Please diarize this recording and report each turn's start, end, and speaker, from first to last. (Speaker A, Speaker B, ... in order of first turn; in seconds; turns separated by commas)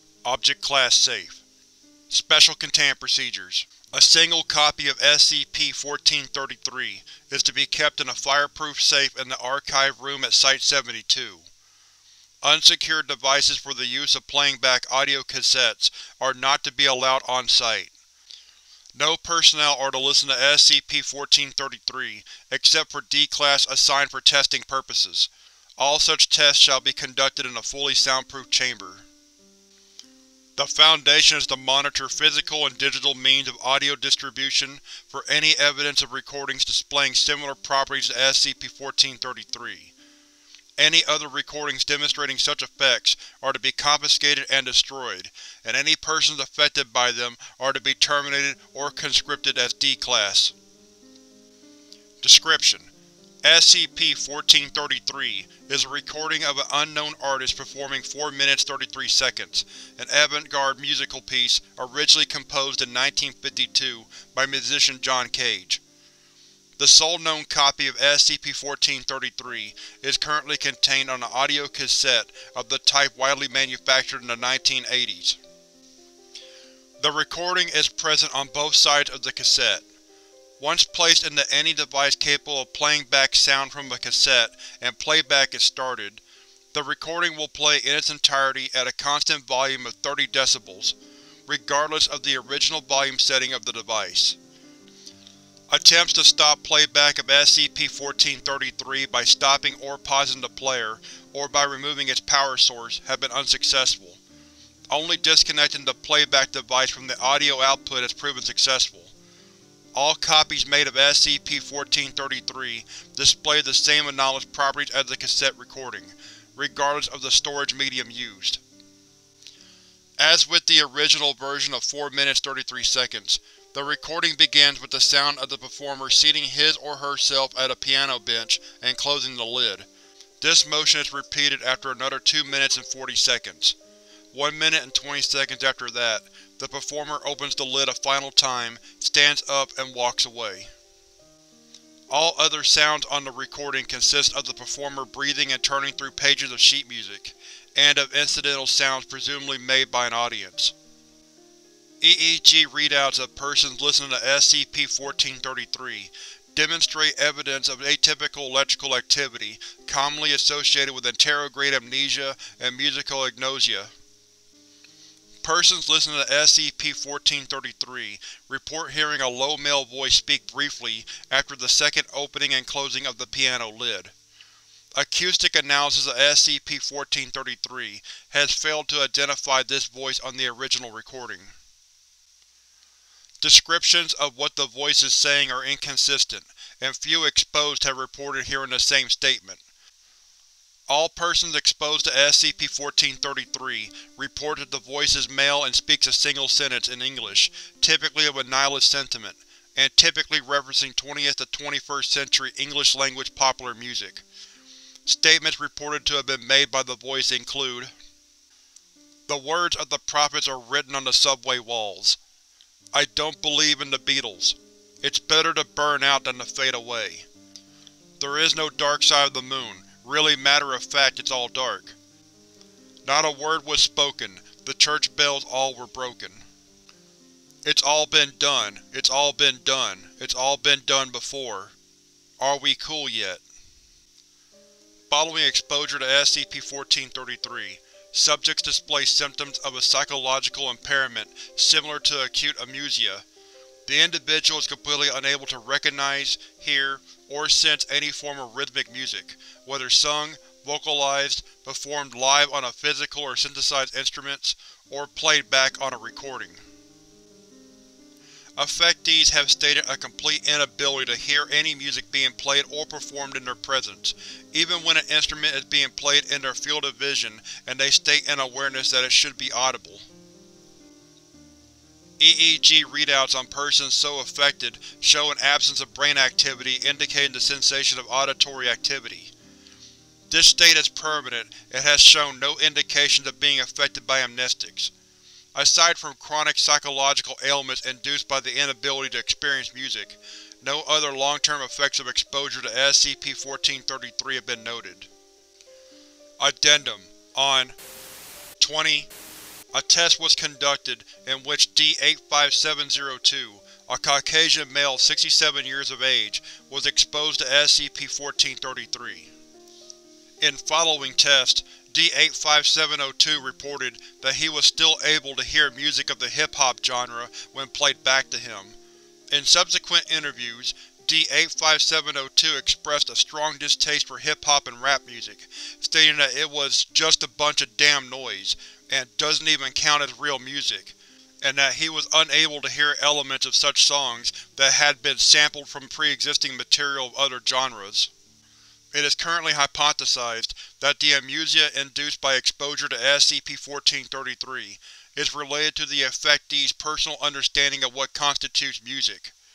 Speaker A: 0.2-1.4, Speaker A: 2.1-11.4, Speaker A: 12.4-17.9, Speaker A: 18.9-29.1, Speaker A: 30.6-39.9, Speaker A: 40.8-50.5, Speaker A: 52.2-52.9, Speaker A: 53.4-65.8, Speaker A: 66.8-75.4, Speaker A: 77.0-79.8, Speaker A: 80.6-94.4, Speaker A: 95.7-104.2, Speaker A: 104.9-109.1, Speaker A: 109.9-118.6, Speaker A: 120.2-129.9, Speaker A: 130.4-133.8, Speaker A: 134.3-140.7, Speaker A: 142.1-150.7, Speaker A: 152.0-163.9, Speaker A: 165.4-174.1, Speaker A: 174.9-181.5, Speaker A: 183.4-189.6, Speaker A: 190.9-204.2, Speaker A: 205.0-207.9, Speaker A: 209.3-212.2, Speaker A: 212.9-217.3, Speaker A: 218.2-222.0, Speaker A: 223.0-226.4, Speaker A: 227.6-231.7, Speaker A: 232.4-233.4, Speaker A: 235.1-243.2, Speaker A: 243.8-256.6, Speaker A: 258.6-270.1, Speaker A: 272.2-279.3, Speaker A: 280.3-284.9, Speaker A: 285.5-295.1, Speaker A: 296.4-297.8, Speaker A: 298.6-299.1, Speaker A: 299.7-309.3, Speaker A: 310.4-318.8, Speaker A: 319.3-338.1, Speaker A: 338.9-349.3